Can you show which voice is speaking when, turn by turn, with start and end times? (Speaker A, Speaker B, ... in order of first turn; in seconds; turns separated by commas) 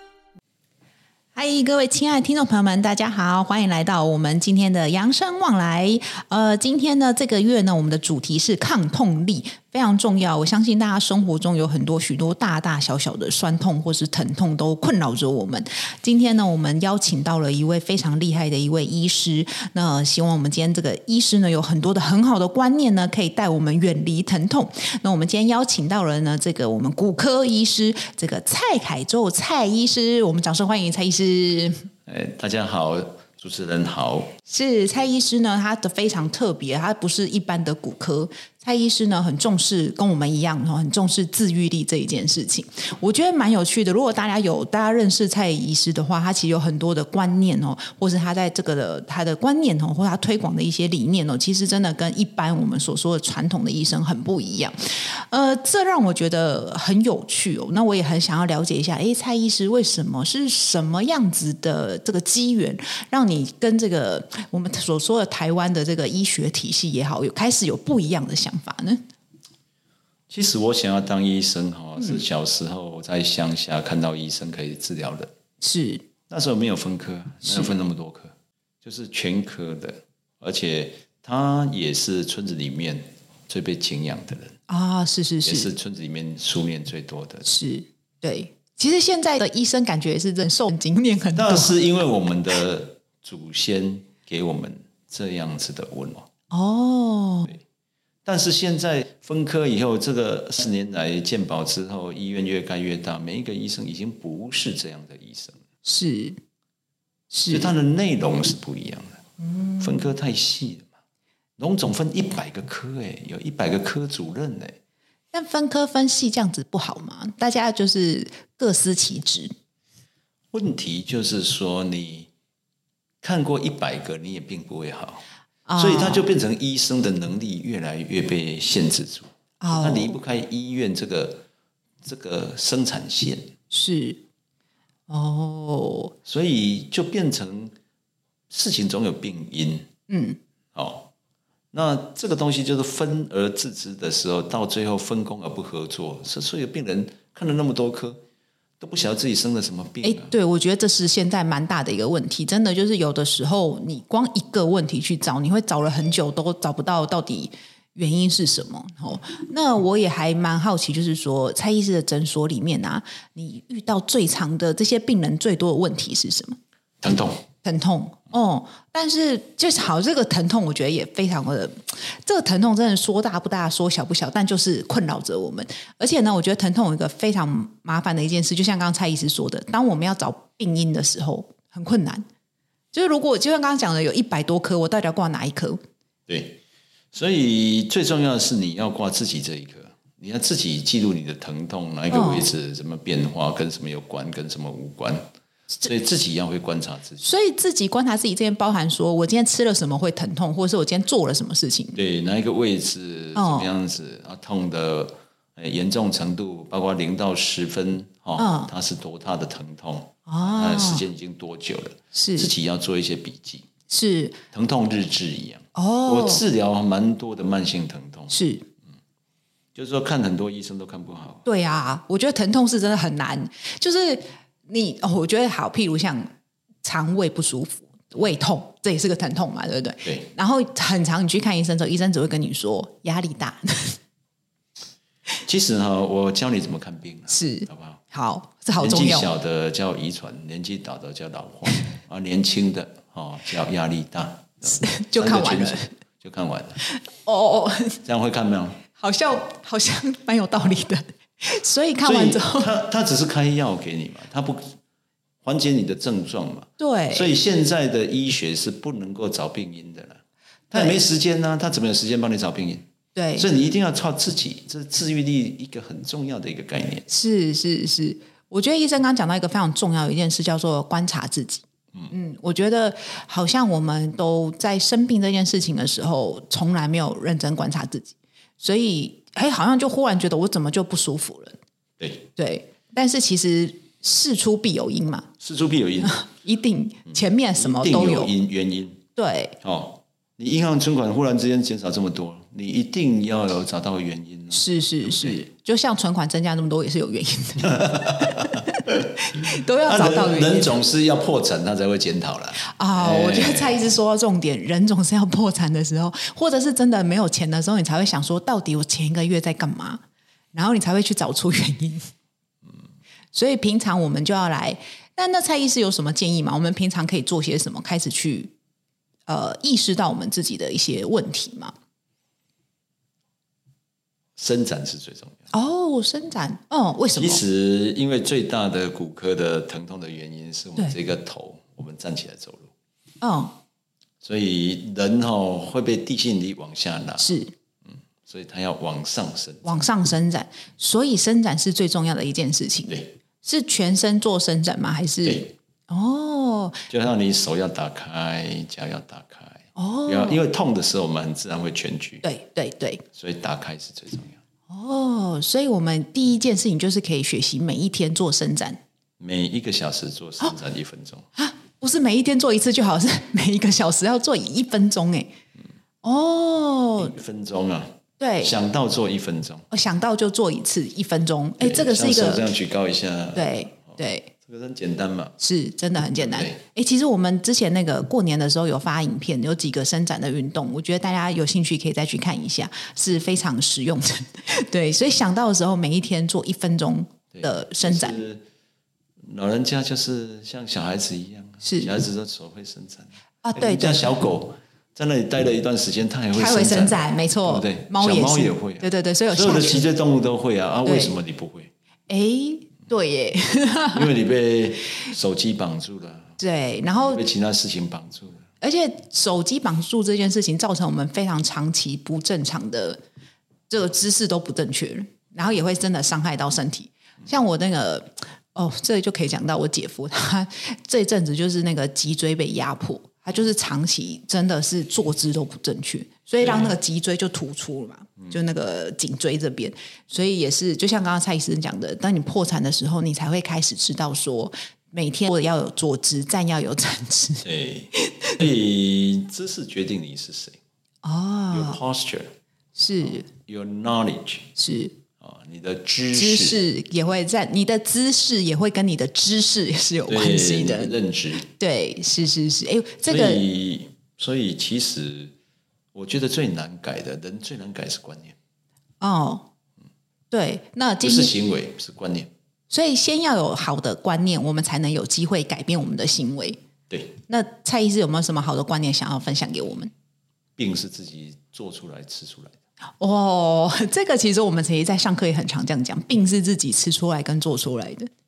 Speaker A: 1.3-31.9, Speaker B: 32.0-34.3, Speaker A: 34.5-69.0, Speaker B: 70.3-75.3, Speaker A: 75.6-76.1, Speaker B: 76.3-84.6, Speaker A: 77.5-77.7, Speaker A: 84.7-85.7, Speaker B: 85.4-87.5, Speaker A: 87.5-91.7, Speaker B: 91.4-96.3, Speaker A: 96.5-97.5, Speaker B: 98.2-105.6, Speaker A: 105.8-106.4, Speaker A: 107.3-107.7, Speaker B: 107.5-109.2, Speaker A: 109.4-109.8, Speaker B: 109.8-110.9, Speaker B: 111.6-114.8, Speaker A: 115.3-119.5, Speaker B: 120.5-122.3, Speaker B: 123.2-125.2, Speaker A: 125.7-126.3, Speaker B: 125.8-131.4, Speaker A: 129.6-130.2, Speaker B: 132.0-133.5, Speaker A: 133.7-134.2, Speaker A: 135.1-136.1, Speaker B: 136.2-137.8, Speaker B: 138.5-139.9, Speaker A: 140.1-140.4, Speaker B: 140.7-141.1, Speaker B: 141.7-148.2, Speaker B: 148.8-150.3, Speaker A: 150.0-166.6, Speaker B: 167.0-167.4, Speaker A: 167.6-182.2, Speaker A: 182.9-185.8, Speaker B: 186.3-186.6, Speaker B: 187.1-195.3, Speaker A: 192.1-192.5, Speaker B: 195.8-197.3, Speaker A: 197.2-202.0, Speaker B: 201.9-213.7, Speaker A: 203.3-203.7, Speaker A: 208.4-208.7, Speaker A: 210.3-211.0, Speaker A: 212.1-212.5, Speaker A: 213.9-214.4, Speaker B: 214.5-218.3, Speaker A: 215.8-216.4, Speaker A: 218.3-218.7, Speaker B: 219.8-221.4, Speaker A: 221.4-226.3, Speaker A: 226.8-234.0, Speaker B: 230.0-230.3, Speaker B: 235.4-238.0, Speaker A: 237.3-239.3, Speaker B: 238.8-246.8, Speaker A: 244.6-245.9, Speaker A: 246.9-248.0, Speaker B: 248.1-248.8, Speaker A: 248.9-252.7, Speaker B: 252.0-254.8, Speaker B: 255.4-262.9, Speaker A: 256.8-257.3, Speaker A: 260.7-261.0, Speaker A: 263.1-263.5, Speaker B: 263.4-267.1, Speaker A: 267.1-281.6, Speaker B: 282.0-282.3, Speaker A: 282.4-285.3, Speaker B: 285.4-286.2, Speaker A: 286.0-288.3, Speaker B: 287.1-289.0, Speaker A: 289.2-289.6, Speaker B: 289.6-295.4, Speaker A: 294.5-300.8, Speaker B: 297.6-303.9, Speaker A: 302.6-310.0, Speaker A: 310.5-312.1, Speaker A: 313.3-318.5, Speaker A: 319.3-321.7, Speaker B: 324.4-325.4, Speaker A: 325.5-327.4, Speaker B: 327.2-332.7, Speaker A: 333.2-333.6, Speaker B: 334.2-337.3, Speaker A: 337.2-337.5, Speaker B: 337.9-339.8, Speaker A: 339.6-346.9, Speaker B: 345.2-345.5, Speaker B: 346.9-352.2, Speaker A: 349.8-350.4, Speaker A: 352.2-353.0, Speaker B: 353.1-354.4, Speaker A: 354.7-358.8, Speaker B: 359.2-361.2, Speaker A: 361.4-365.3, Speaker A: 366.0-367.1, Speaker B: 367.0-369.7, Speaker A: 368.2-368.5, Speaker A: 369.7-372.4, Speaker B: 371.6-375.4, Speaker A: 373.4-374.3, Speaker A: 375.4-388.2, Speaker B: 376.2-376.6, Speaker B: 387.3-388.4, Speaker B: 389.2-401.7, Speaker A: 391.6-391.9, Speaker A: 393.4-394.2, Speaker A: 396.3-399.9, Speaker A: 400.9-401.1, Speaker A: 402.1-404.1, Speaker B: 403.9-406.4, Speaker A: 406.4-407.2, Speaker B: 406.9-408.4, Speaker A: 408.6-413.0, Speaker A: 413.7-438.4, Speaker B: 426.4-426.8, Speaker B: 437.4-440.6, Speaker A: 441.0-441.8, Speaker B: 441.5-442.3, Speaker A: 442.8-443.3, Speaker B: 443.0-444.5, Speaker A: 444.6-445.0, Speaker B: 445.2-446.6, Speaker A: 446.1-450.9, Speaker B: 450.1-451.5, Speaker A: 451.4-453.4, Speaker B: 453.1-455.3, Speaker B: 455.9-458.4, Speaker A: 459.0-459.5, Speaker A: 460.3-461.3, Speaker B: 461.0-462.3, Speaker A: 462.7-466.6, Speaker B: 466.9-467.2, Speaker A: 467.3-469.9, Speaker B: 470.6-472.6, Speaker A: 473.0-478.1